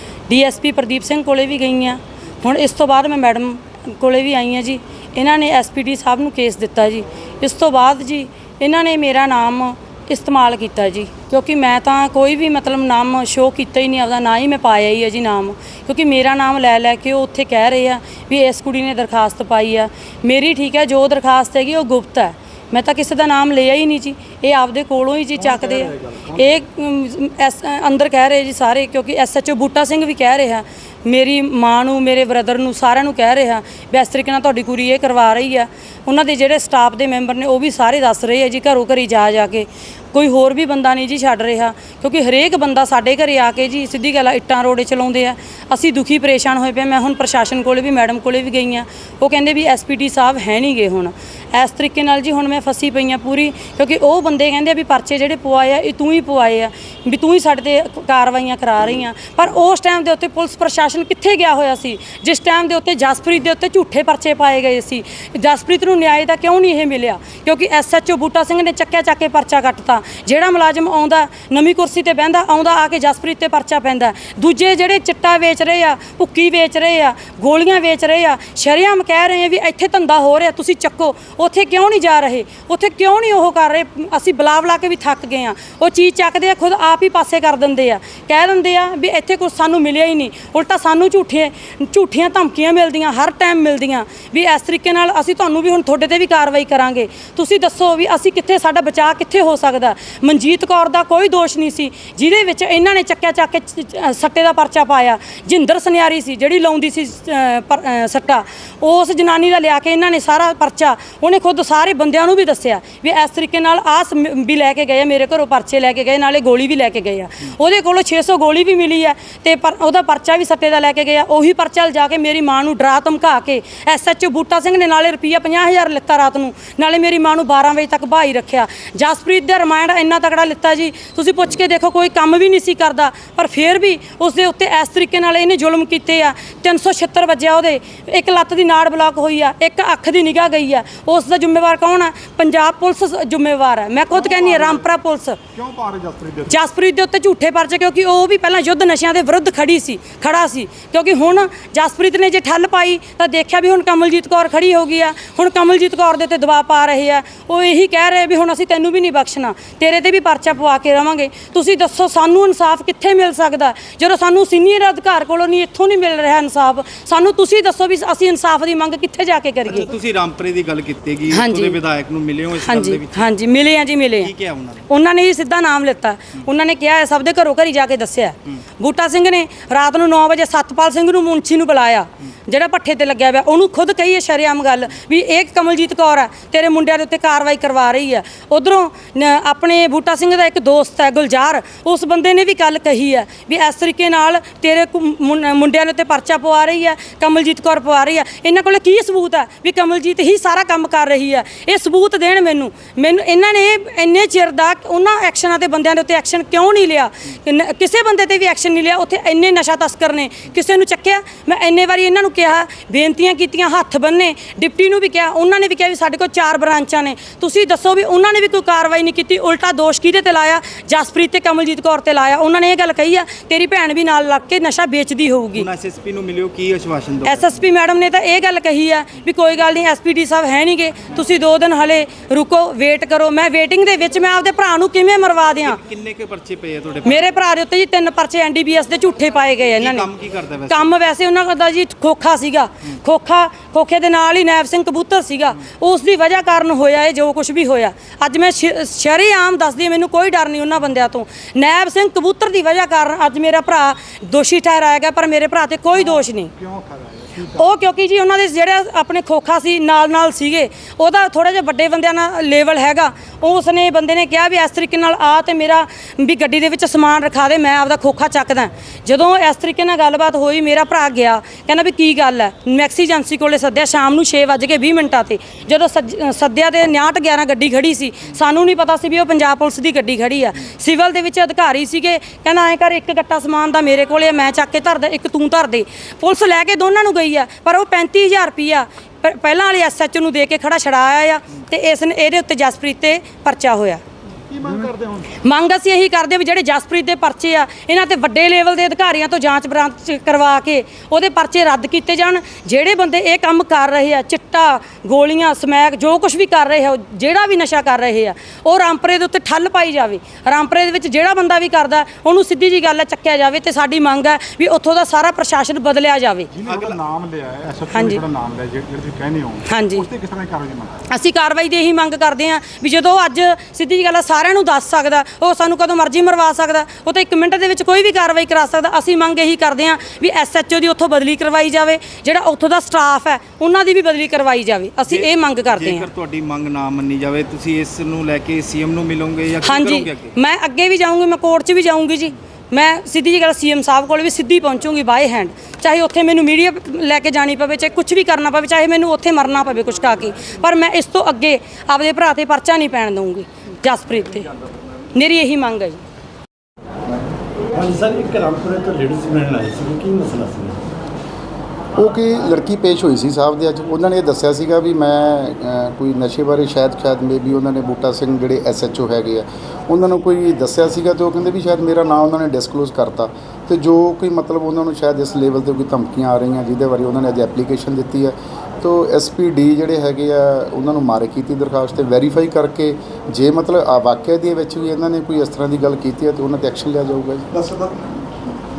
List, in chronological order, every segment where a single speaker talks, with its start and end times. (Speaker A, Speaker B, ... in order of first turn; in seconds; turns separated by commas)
Speaker A: 0.3-145.4, Speaker B: 144.1-144.8, Speaker B: 145.5-146.6, Speaker A: 146.5-169.9, Speaker C: 169.8-173.2, Speaker A: 171.3-171.8, Speaker A: 172.6-174.3, Speaker C: 174.2-174.9, Speaker A: 174.9-225.7, Speaker C: 225.5-227.6, Speaker A: 227.2-235.8, Speaker C: 235.8-237.2, Speaker A: 237.0-240.1, Speaker C: 239.8-240.9, Speaker A: 240.7-256.5, Speaker B: 256.0-257.7, Speaker A: 257.5-294.0, Speaker B: 294.6-295.3, Speaker A: 295.4-316.5, Speaker B: 316.5-321.1, Speaker A: 317.9-318.2, Speaker A: 319.7-320.1, Speaker A: 321.1-336.1, Speaker C: 335.1-340.3, Speaker A: 339.6-354.5, Speaker A: 355.1-356.0, Speaker D: 357.7-360.9, Speaker E: 361.9-387.4, Speaker B: 387.5-388.6